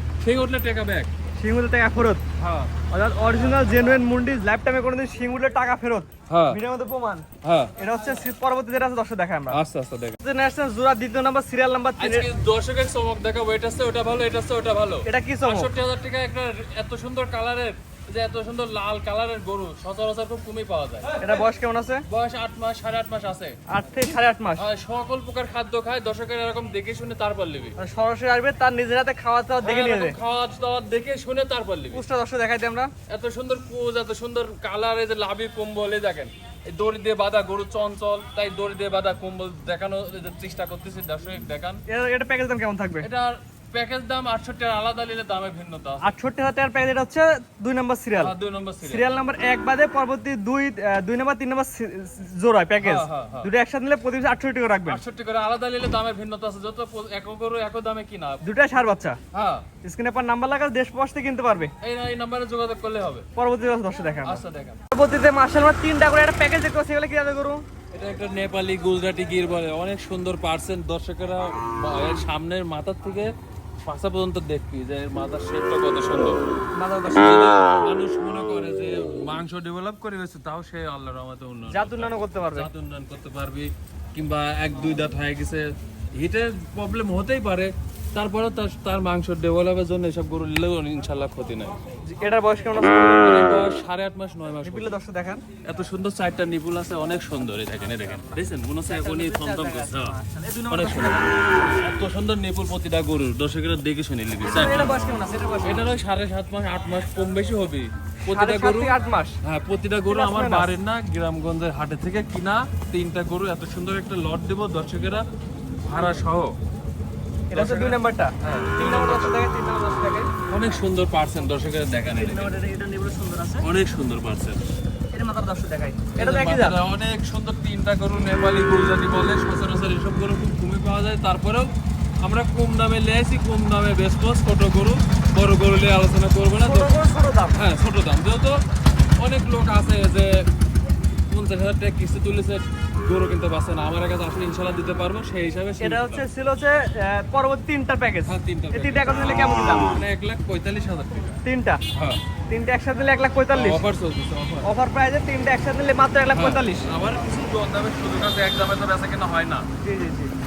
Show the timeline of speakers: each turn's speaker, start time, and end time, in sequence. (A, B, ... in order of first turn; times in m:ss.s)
0:00.2-0:01.1 A
0:01.4-0:02.2 B
0:02.4-0:02.7 A
0:02.9-0:07.3 B
0:06.3-0:06.6 A
0:07.4-0:07.7 A
0:07.8-0:09.6 B
0:09.5-0:10.2 A
0:10.2-0:12.3 B
0:12.0-0:21.2 A
0:15.1-0:15.7 B
0:21.2-0:22.1 B
0:22.1-0:23.6 A
0:23.7-0:24.7 B
0:24.6-0:27.8 A
0:27.8-0:30.2 B
0:29.6-0:32.0 A
0:31.9-0:32.9 B
0:33.1-0:41.8 A
0:41.9-0:43.1 B
0:43.0-0:46.1 A
0:46.0-0:55.0 B
0:48.2-0:49.1 A
0:52.8-0:53.5 A
0:54.9-0:58.4 A
0:58.4-0:59.2 B
0:59.3-0:59.7 A
0:59.8-1:01.7 B
1:01.8-1:03.3 A
1:03.4-1:07.6 B
1:04.2-1:04.8 A
1:07.9-1:13.3 A
1:13.8-1:16.4 A
1:16.8-1:17.6 B
1:17.1-1:31.8 A
1:21.7-1:22.7 B
1:32.1-1:33.3 B
1:33.1-1:35.0 A
1:34.6-1:35.4 B
1:35.6-1:40.2 A
1:38.9-1:41.3 B
1:40.7-1:45.0 A
1:44.4-1:45.8 B
1:45.6-1:55.2 A
1:48.2-1:49.4 B
1:50.1-1:50.7 B
1:55.8-1:56.6 A
1:57.5-2:00.3 B
1:57.5-1:59.4 A
2:00.5-2:02.5 A
2:02.0-2:03.6 B
2:03.6-2:04.6 A
2:05.1-2:06.8 B
2:06.2-2:16.9 A
2:16.6-2:17.6 B
2:17.5-2:18.6 A
2:19.2-2:20.4 A
2:21.3-2:26.3 A
2:25.8-2:29.9 B
2:28.3-2:29.2 A
2:29.9-2:31.4 A
2:31.4-2:31.8 B
2:31.9-2:32.2 A
2:32.5-2:33.8 B
2:33.5-2:34.7 A
2:34.6-2:36.9 B
2:36.3-2:39.7 A
2:39.8-2:40.3 B